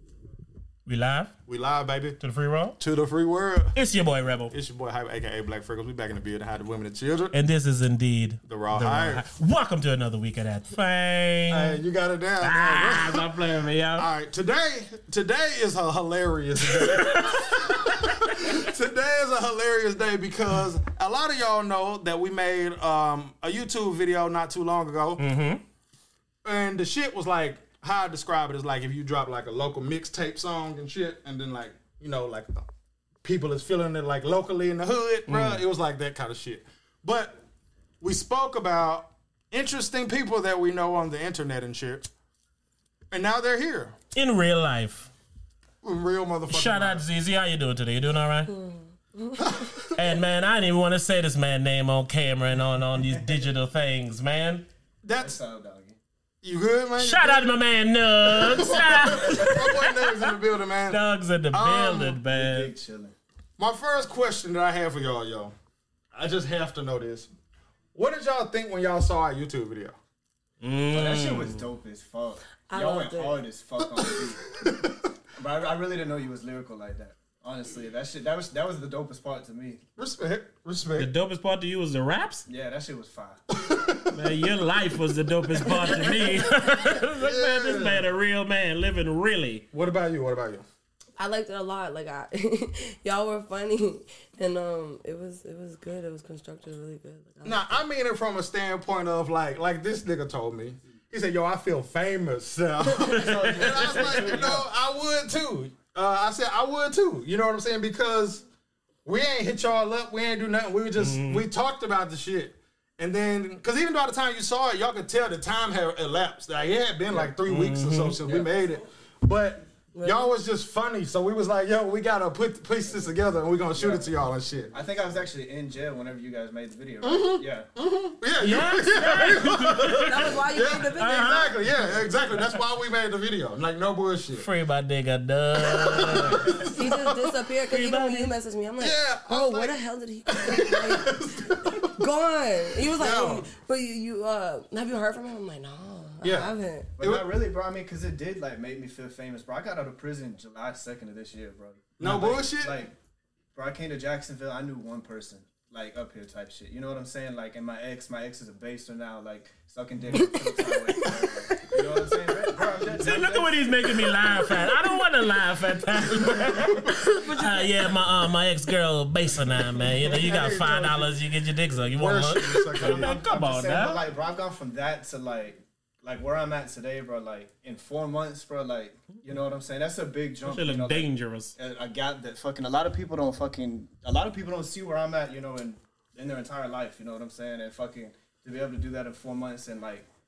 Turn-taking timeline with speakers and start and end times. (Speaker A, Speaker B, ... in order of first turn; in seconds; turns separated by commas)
Speaker A: 0.9-1.3, Speaker B: 1.5-2.2, Speaker A: 2.2-2.8, Speaker B: 2.8-3.8, Speaker A: 3.8-4.5, Speaker B: 4.5-7.3, Speaker A: 7.3-11.8, Speaker B: 8.4-9.3, Speaker B: 11.5-13.3, Speaker A: 12.4-14.1, Speaker B: 14.0-25.2, Speaker A: 16.8-18.1, Speaker A: 25.2-25.6, Speaker B: 26.4-32.7, Speaker B: 33.2-37.4, Speaker A: 35.3-35.6, Speaker B: 38.0-42.1, Speaker B: 43.1-44.0, Speaker A: 44.1-45.1, Speaker B: 45.8-47.0, Speaker A: 46.5-48.5, Speaker C: 48.5-49.6, Speaker B: 49.4-49.9, Speaker A: 49.9-54.6, Speaker D: 53.1-53.5, Speaker B: 55.0-55.4, Speaker D: 55.2-56.0, Speaker B: 56.4-57.6, Speaker A: 57.0-62.7, Speaker B: 58.2-61.0, Speaker D: 59.2-59.6, Speaker B: 61.5-62.2, Speaker D: 62.3-63.1, Speaker B: 63.6-65.5, Speaker B: 66.1-67.3, Speaker B: 68.0-70.0, Speaker A: 70.6-71.7, Speaker D: 70.9-74.7, Speaker C: 72.7-73.4, Speaker B: 74.0-75.0, Speaker D: 75.4-79.8, Speaker B: 80.0-81.1, Speaker A: 81.0-82.5, Speaker D: 82.5-83.4, Speaker B: 83.5-84.2, Speaker A: 84.1-89.7, Speaker B: 85.7-86.2, Speaker C: 86.1-86.9, Speaker B: 87.0-88.1, Speaker B: 89.7-90.7, Speaker C: 91.2-97.8, Speaker B: 97.4-108.4, Speaker A: 103.1-104.4, Speaker D: 103.1-104.7, Speaker B: 109.0-124.7, Speaker A: 111.0-111.5, Speaker A: 117.5-118.2, Speaker D: 118.2-118.5, Speaker C: 119.9-120.3, Speaker D: 123.7-124.1, Speaker D: 124.7-127.7, Speaker B: 127.0-134.5, Speaker A: 128.4-130.4, Speaker C: 130.0-131.3, Speaker A: 130.9-131.6, Speaker A: 134.4-136.5, Speaker B: 135.6-137.3, Speaker C: 136.5-147.0, Speaker A: 137.7-138.3, Speaker B: 138.8-139.8, Speaker B: 140.3-142.0, Speaker B: 142.8-143.5, Speaker B: 146.2-147.3, Speaker D: 147.0-152.9, Speaker B: 152.0-152.8, Speaker D: 153.5-164.3, Speaker C: 160.1-162.1, Speaker B: 162.7-163.1, Speaker A: 163.0-174.0, Speaker B: 166.4-166.8, Speaker C: 166.8-168.1, Speaker B: 169.8-171.2, Speaker B: 172.0-173.2, Speaker D: 172.8-190.1, Speaker A: 180.4-181.5